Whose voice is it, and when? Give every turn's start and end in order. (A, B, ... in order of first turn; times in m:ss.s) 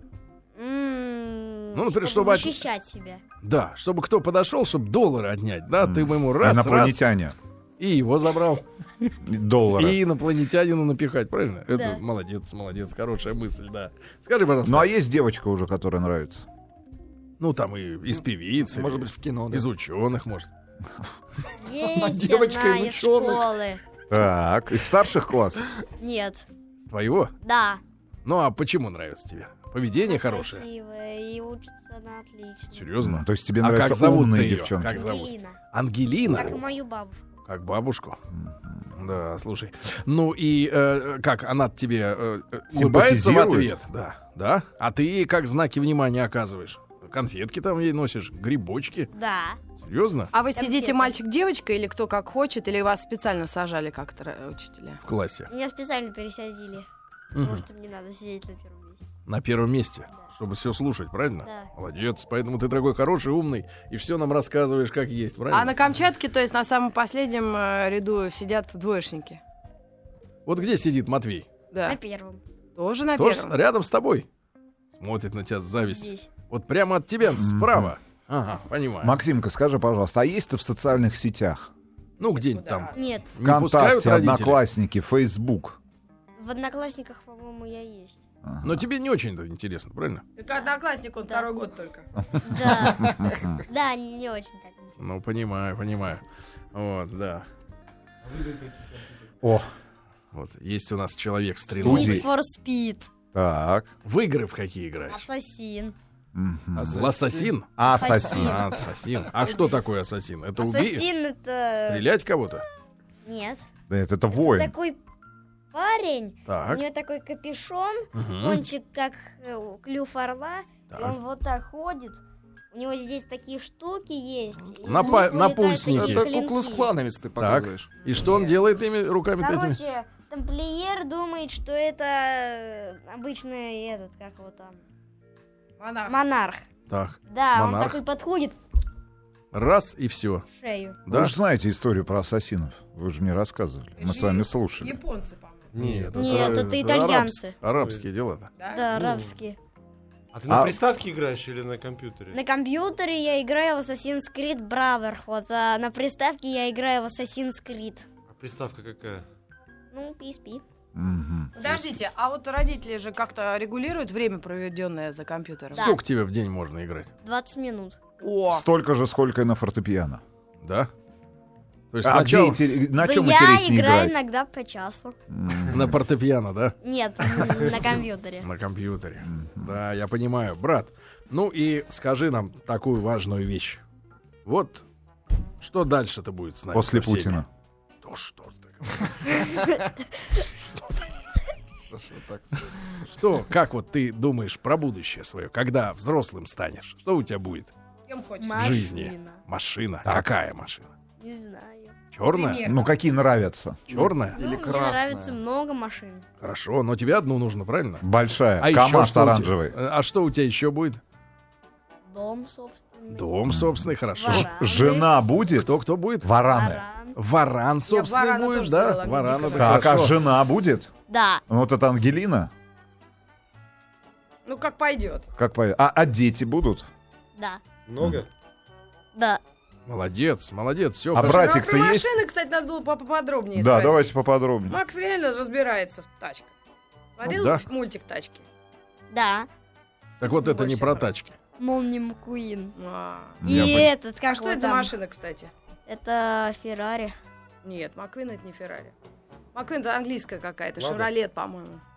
0:00.6-0:03.2 A
0:01.7-0:02.6 B
0:03.4-0:07.0 B
0:05.8-0:07.4 C
0:07.8-0:09.2 B
0:09.2-0:10.0 C
0:09.8-0:14.9 B
0:11.7-0:12.0 A
0:14.6-0:16.5 C
0:17.4-0:20.5 B
0:18.7-0:19.7 D
0:21.6-0:23.8 A
0:21.8-0:23.5 D
0:24.1-0:25.6 C
0:26.0-0:26.5 A
0:26.9-0:27.3 B
0:27.4-0:27.8 A
0:28.2-0:30.6 B
0:30.0-0:32.9 A
0:32.7-0:36.7 B
0:33.0-0:35.1 C
0:34.9-0:35.6 A
0:36.3-0:37.2 A
0:37.5-0:38.2 B
0:38.3-0:38.9 C
0:39.0-0:49.1 B
0:42.7-0:43.8 C
0:49.1-0:49.6 A
0:49.8-0:50.3 B
0:50.3-0:55.0 E
0:50.6-0:51.1 A
0:55.0-0:55.5 B
0:55.5-0:56.9 A
0:57.3-0:57.6 B
0:57.4-0:59.0 A
0:59.3-1:05.8 B
1:05.5-1:09.4 E
1:10.5-1:11.5 B
1:11.7-1:12.0 E
1:11.9-1:12.4 A
1:12.8-1:13.5 E
1:13.2-1:14.3 B
1:14.9-1:19.2 B
1:15.8-1:16.3 A
1:17.4-1:17.9 C
1:19.0-1:21.7 C
1:22.2-1:24.6 B
1:22.4-1:23.0 E
1:23.0-1:23.3 A
1:23.4-1:25.8 C
1:26.4-1:28.2 A
1:28.4-1:28.8 C
1:28.6-1:30.2 B
1:30.4-1:32.1 E
1:32.4-1:35.0 A
1:32.6-1:33.6 C
1:35.0-1:36.2 B
1:36.7-1:37.5 B
1:39.4-1:39.7 C
1:40.3-1:42.3 B
1:41.8-1:42.3 C
1:41.8-1:43.1 A
1:43.3-1:43.9 C
1:44.0-1:45.2 B
1:45.1-1:46.0 A
1:46.4-1:47.0 C
1:46.8-1:48.2 D
1:46.9-1:47.7 B
1:47.8-1:48.6 C
1:47.8-1:48.7 A
1:48.3-1:51.1 B
1:49.4-1:49.7 A
1:50.6-1:52.0 A
1:51.9-1:52.6 B
1:53.2-1:53.7 A
1:53.9-1:54.7 C
1:54.3-1:55.0 A
1:55.7-2:02.2 A
1:56.5-1:56.8 B
1:58.2-1:58.6 B
2:00.9-2:01.2 B
2:02.7-2:06.9 A
2:04.8-2:06.3 B
2:04.9-2:05.3 D
2:05.9-2:07.9 D
2:07.4-2:09.8 B
2:08.1-2:08.5 E
2:09.4-2:14.8 A
2:15.8-2:16.2 E
2:16.1-2:16.6 A
2:16.9-2:18.0 B
2:17.3-2:18.6 A
2:19.5-2:20.5 B
2:20.6-2:21.0 A
2:21.1-2:21.3 B
2:21.1-2:25.0 C
2:24.0-2:25.7 E
2:25.7-2:26.7 F
2:25.8-2:28.5 B
2:26.2-2:27.6 A
2:27.7-2:28.1 F
2:28.6-2:28.9 E
2:28.7-2:29.6 A
2:28.9-2:29.3 F
2:30.3-2:32.4 F
2:30.5-2:30.8 C
2:32.3-2:38.1 A
2:38.3-2:39.2 F
2:39.9-2:40.6 A
2:41.0-2:42.0 C
2:41.6-2:45.9 E
2:45.8-2:46.0 A
2:45.8-2:47.1 B
2:47.2-2:48.0 A
2:48.2-2:48.6 E
2:48.5-2:50.2 C
2:50.6-2:50.9 B
2:51.9-2:52.6 B
2:52.0-2:54.2 C
2:53.0-2:55.2 A
2:55.3-2:56.0 C
2:55.7-2:56.8 B
2:56.8-2:58.5 A
2:58.4-3:03.8 B
2:59.2-2:59.8 C
3:04.5-3:04.8 B
3:05.6-3:07.4 B
3:06.7-3:07.5 C
3:08.0-3:09.1 B
3:11.9-3:13.1 D
3:13.1-3:17.7 B
3:18.1-3:18.8 E
3:18.4-3:19.4 A
3:18.6-3:20.9 B
3:20.0-3:20.4 C
3:21.2-3:22.0 A
3:22.1-3:22.7 B
3:22.3-3:22.9 E
3:22.6-3:23.9 C
3:23.9-3:25.4 D
3:23.9-3:24.4 B
3:24.4-3:26.2 A
3:26.4-3:28.0 B
3:28.0-3:29.8 C
3:28.6-3:31.0 B
3:32.1-3:33.3 A
3:33.1-3:34.5 B
3:33.5-3:36.8 C
3:34.2-3:35.1 A
3:35.5-3:36.3 B
3:36.5-3:37.2 A
3:37.2-3:40.2 B
3:37.9-3:40.0 E
3:39.6-3:40.9 C
3:41.1-3:41.4 A
3:41.5-3:42.5 C
3:44.5-3:45.3 E
3:45.4-3:46.9 C
3:47.4-3:47.6 A
3:47.9-3:48.3 F
3:49.2-3:49.4 A
3:49.9-3:51.5 B
3:51.1-3:52.1 C
3:51.2-3:54.1 E
3:53.6-3:54.8 C
3:54.7-3:56.5 E
3:57.2-3:58.4 E
3:57.2-3:57.7 B
3:59.1-3:59.5 A
4:00.2-4:01.4 B
4:00.2-4:01.1 E
4:01.6-4:02.8 A
4:02.8-4:05.5 E
4:03.4-4:03.9 C
4:03.4-4:04.9 A
4:05.9-4:07.2 A
4:07.6-4:08.9 E
4:09.6-4:11.8 E
4:10.8-4:11.1 F